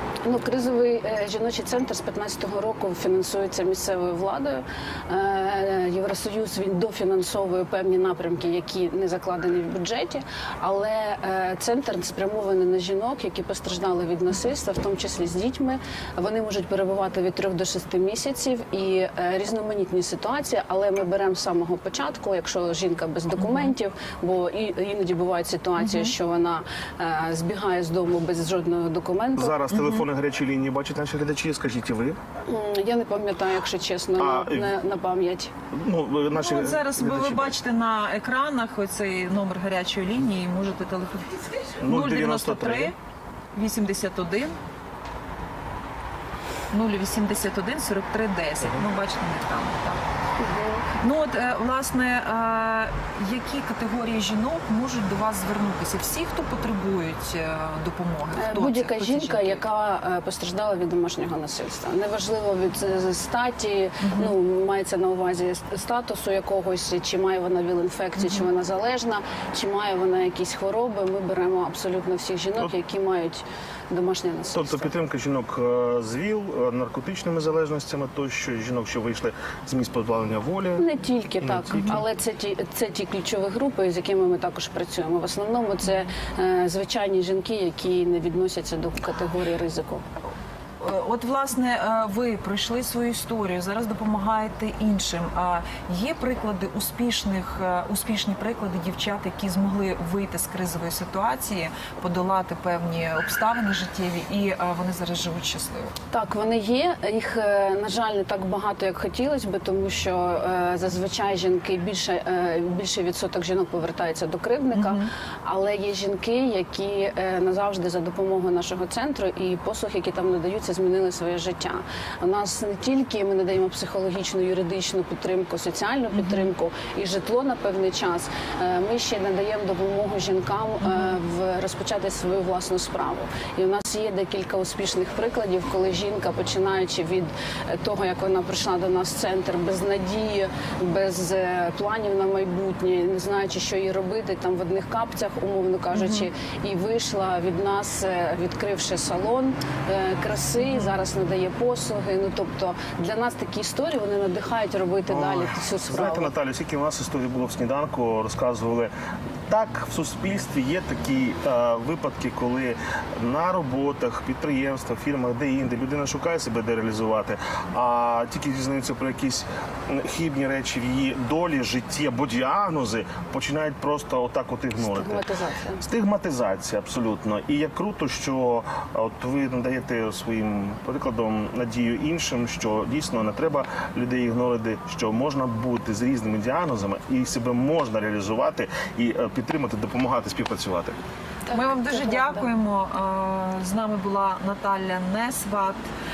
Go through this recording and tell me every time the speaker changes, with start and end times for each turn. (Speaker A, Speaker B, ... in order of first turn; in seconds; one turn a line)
Speaker A: 0.2-29.6
Speaker B: 23.4-23.7
Speaker B: 25.8-26.1
Speaker C: 29.4-32.2
Speaker B: 29.7-30.0
Speaker A: 32.5-35.5
Speaker C: 34.2-34.7
Speaker C: 35.7-37.5
Speaker B: 36.3-43.0
Speaker C: 41.8-42.9
Speaker B: 43.5-44.5
Speaker B: 46.7-50.0
Speaker A: 50.4-50.9
Speaker B: 51.0-59.6
Speaker A: 58.4-74.9
Speaker B: 64.0-64.3
Speaker B: 68.2-68.4
Speaker C: 74.5-80.8
Speaker A: 80.8-90.0
Speaker C: 81.4-82.0
Speaker B: 90.8-105.9
Speaker A: 106.1-156.3
Speaker B: 114.7-115.1
Speaker B: 126.1-126.5
Speaker B: 145.9-146.3
Speaker C: 155.1-158.9
Speaker C: 159.5-175.2
Speaker A: 174.8-175.8
Speaker C: 175.8-191.0
Speaker A: 191.5-192.4
Speaker B: 191.5-195.8